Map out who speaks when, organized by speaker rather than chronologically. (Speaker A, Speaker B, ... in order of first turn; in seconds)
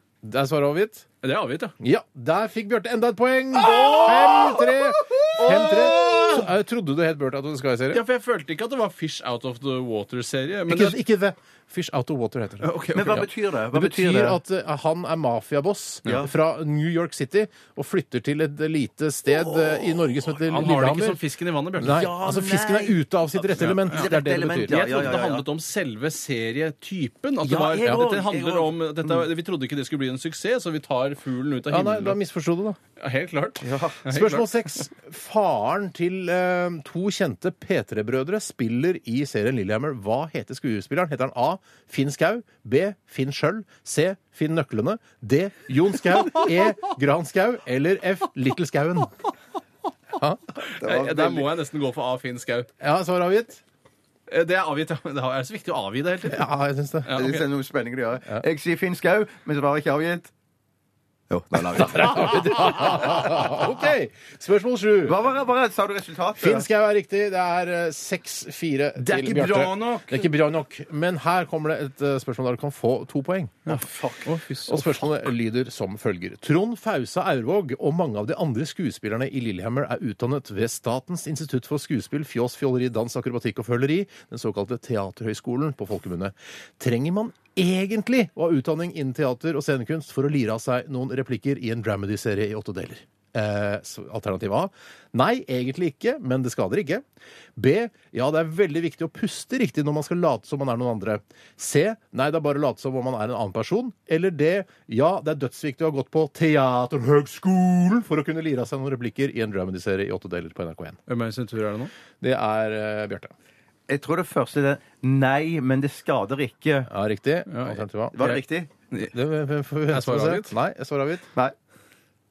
Speaker A: 0.2-1.1, 1.8-8.0, 10.7-21.2, 21.8-24.8, 31.7-32.8, 34.1-49.1, 52.8-53.6, 56.3-57.2, 61.7-65.2, 66.4-73.8, 74.7-97.0, 97.6-111.0, 112.2-113.3, 116.9-118.2, 119.1-121.3
Speaker B: 1.2-1.7, 3.6-4.5, 5.3-6.5, 7.9-11.0, 12.6-13.2, 20.4-22.1, 23.6-24.1, 24.7-32.2, 33.0-34.8, 50.6-52.7, 54.3-56.5, 57.0-57.4, 69.0-70.3, 73.7-74.9, 111.1-111.9, 117.5-119.1, 119.9-120.5
Speaker C: 3.7-5.3, 12.9-14.4, 16.0-16.3, 21.8-25.4, 27.4-29.2, 33.6-34.0, 50.7-51.5, 57.1-60.3, 61.3-63.5, 65.0-66.7, 73.8-74.2, 113.9-116.9, 118.1-118.7